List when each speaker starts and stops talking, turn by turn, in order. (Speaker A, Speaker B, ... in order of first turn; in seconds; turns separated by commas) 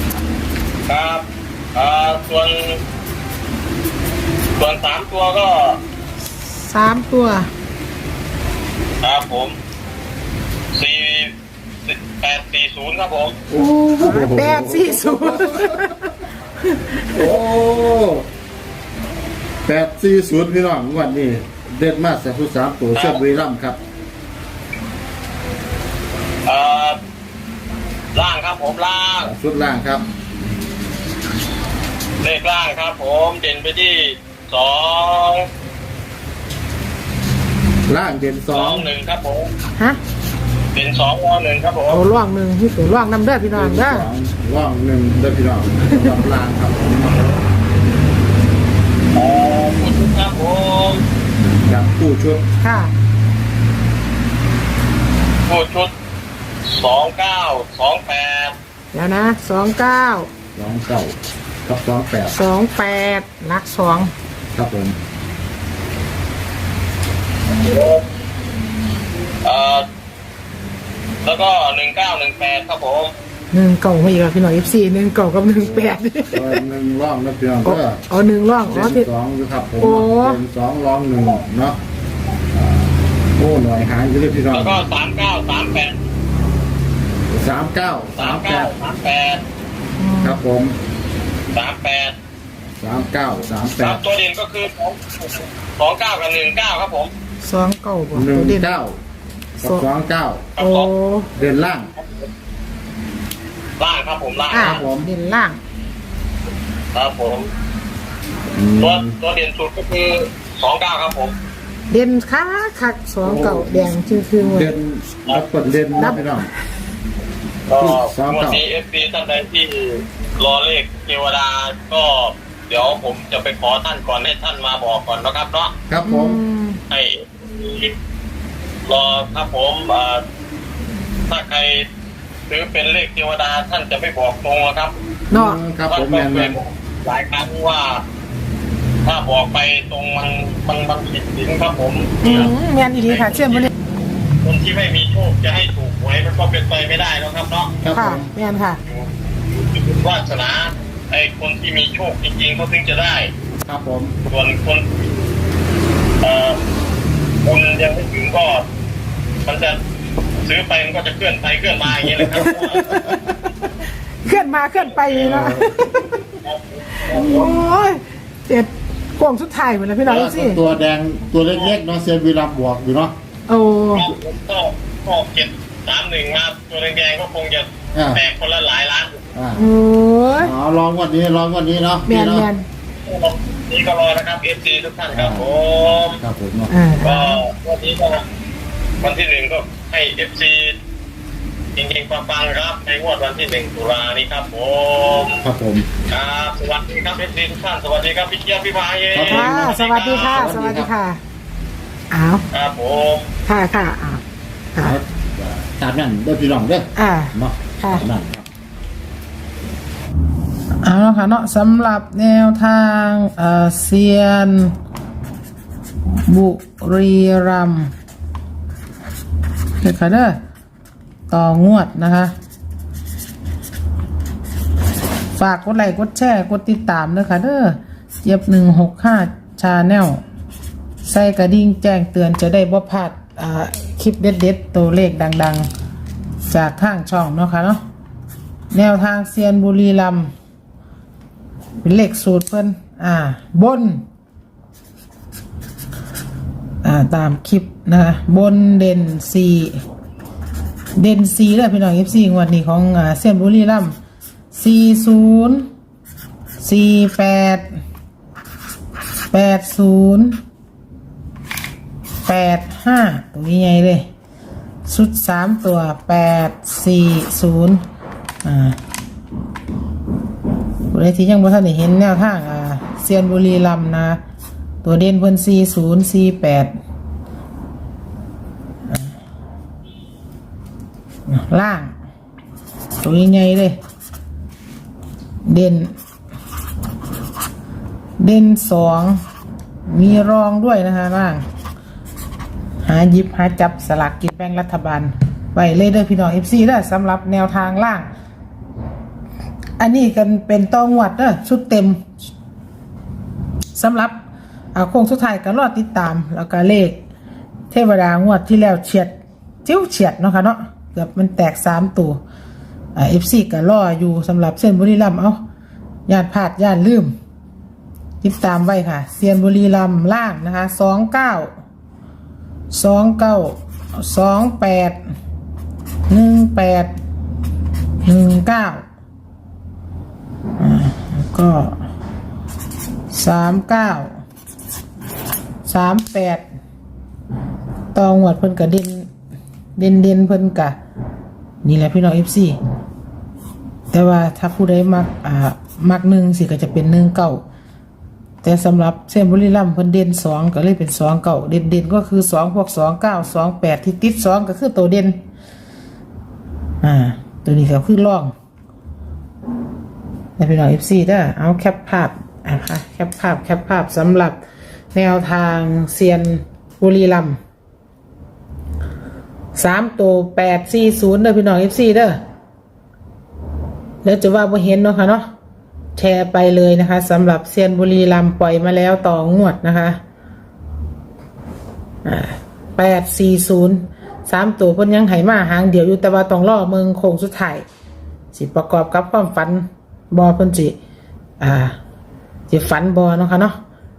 Speaker A: 0.9-2.8, Speaker A: 4.6-5.8, Speaker B: 6.6-7.5, Speaker A: 9.0-9.6, Speaker A: 10.7-11.3, Speaker A: 11.8-13.3, Speaker C: 13.5-15.9, Speaker B: 13.5-16.1, Speaker B: 16.7-17.3, Speaker C: 17.0-18.2, Speaker C: 19.6-23.8, Speaker A: 22.9-23.2, Speaker A: 26.4-27.0, Speaker A: 28.1-29.3, Speaker C: 29.2-30.1, Speaker A: 32.2-35.5, Speaker C: 37.9-38.9, Speaker A: 38.5-39.5, Speaker A: 40.7-42.0, Speaker B: 41.9-44.1, Speaker C: 43.5-47.4, Speaker A: 49.1-51.0, Speaker C: 51.4-52.4, Speaker B: 52.6-52.9, Speaker A: 55.5-55.9, Speaker A: 56.6-58.5, Speaker B: 58.9-60.3, Speaker C: 60.5-62.4, Speaker B: 62.3-64.1, Speaker C: 64.5-65.0, Speaker A: 67.5-68.0, Speaker A: 69.4-69.9, Speaker A: 71.2-73.1, Speaker B: 73.5-76.6, Speaker C: 75.6-78.0, Speaker B: 77.6-79.1, Speaker C: 78.7-81.8, Speaker B: 79.8-80.4, Speaker C: 82.5-84.8, Speaker A: 84.5-85.9, Speaker C: 87.3-88.7, Speaker A: 88.2-89.4, Speaker B: 90.0-90.4, Speaker C: 90.2-90.8, Speaker A: 91.5-92.1, Speaker C: 92.8-94.0, Speaker A: 93.8-97.1, Speaker B: 97.4-98.7, Speaker C: 98.1-99.0, Speaker B: 99.6-99.8, Speaker C: 99.6-100.5, Speaker A: 100.5-100.9, Speaker B: 100.6-101.3, Speaker C: 101.3-101.9, Speaker A: 102.0-102.3, Speaker A: 103.8-104.8, Speaker B: 104.5-105.6, Speaker C: 104.5-105.1, Speaker A: 106.9-107.5, Speaker C: 108.5-109.1, Speaker A: 108.8-111.3, Speaker B: 111.9-114.7, Speaker C: 113.2-116.5, Speaker B: 115.9-116.5, Speaker A: 117.7-125.7, Speaker C: 117.8-118.6, Speaker C: 125.9-126.4, Speaker B: 126.0-126.8, Speaker A: 126.9-127.9, Speaker A: 128.8-130.2, Speaker A: 131.3-131.8, Speaker A: 132.5-134.9, Speaker B: 135.3-135.6, Speaker C: 135.3-136.6, Speaker A: 135.9-138.0, Speaker A: 139.0-143.7, Speaker B: 142.2-143.7, Speaker C: 142.2-142.5, Speaker A: 144.4-147.7, Speaker C: 147.8-148.3, Speaker B: 147.9-148.8, Speaker A: 148.8-153.3, Speaker C: 153.6-154.2, Speaker A: 154.2-155.0, Speaker A: 156.2-156.6, Speaker A: 157.4-158.7, Speaker A: 159.4-159.8, Speaker A: 160.4-162.8, Speaker B: 162.3-163.2, Speaker B: 164.2-166.2, Speaker C: 165.1-165.7, Speaker A: 166.4-167.6, Speaker B: 166.9-170.6, Speaker C: 170.0-173.1, Speaker B: 173.5-174.1, Speaker A: 173.9-179.2, Speaker C: 177.9-178.2, Speaker C: 179.3-179.7, Speaker B: 179.6-180.5, Speaker C: 180.4-182.5, Speaker B: 182.1-182.6, Speaker A: 183.1-186.2, Speaker C: 185.1-185.4, Speaker C: 186.2-186.7, Speaker B: 186.7-187.4, Speaker A: 187.0-188.2, Speaker A: 189.0-190.8, Speaker A: 191.8-195.4, Speaker C: 195.4-195.9, Speaker A: 196.1-200.4, Speaker C: 199.1-200.9, Speaker B: 199.3-201.2, Speaker B: 202.1-202.4, Speaker A: 202.5-203.3, Speaker B: 203.5-204.2, Speaker C: 204.8-208.4, Speaker B: 206.9-208.0, Speaker B: 210.8-214.7, Speaker B: 216.3-217.9, Speaker B: 219.8-220.4, Speaker B: 221.3-222.3, Speaker B: 225.3-230.2, Speaker B: 231.0-235.7, Speaker B: 236.5-237.8, Speaker B: 238.7-240.3, Speaker B: 241.8-244.0, Speaker B: 246.8-249.8, Speaker B: 250.9-253.9, Speaker B: 254.5-255.7, Speaker B: 256.6-257.8, Speaker B: 259.3-260.4, Speaker B: 262.2-264.1, Speaker B: 264.9-267.8, Speaker B: 268.4-268.8, Speaker B: 270.9-274.2, Speaker B: 274.8-276.7, Speaker B: 281.3-281.9, Speaker B: 283.0-283.8, Speaker B: 285.4-285.9, Speaker B: 288.2-289.2, Speaker B: 289.9-291.4, Speaker B: 292.8-298.1, Speaker B: 299.8-302.0, Speaker B: 303.7-304.2, Speaker B: 304.7-307.0, Speaker B: 307.7-309.1, Speaker B: 309.6-312.2, Speaker B: 312.9-315.4, Speaker B: 316.1-317.1, Speaker B: 318.2-321.5, Speaker B: 322.7-325.0, Speaker B: 326.1-326.9, Speaker B: 328.0-328.8, Speaker B: 330.6-331.8, Speaker B: 333.1-334.2, Speaker B: 335.6-336.4, Speaker B: 337.9-339.1, Speaker B: 339.8-340.8, Speaker B: 341.6-342.6, Speaker B: 343.9-347.4, Speaker B: 348.4-355.2, Speaker B: 356.8-358.3, Speaker B: 360.4-364.4, Speaker B: 364.9-367.4, Speaker B: 369.5-372.2, Speaker B: 374.0-375.2, Speaker B: 375.9-380.0, Speaker B: 382.0-387.6, Speaker B: 388.3-390.8, Speaker B: 391.4-391.7, Speaker B: 392.5-393.6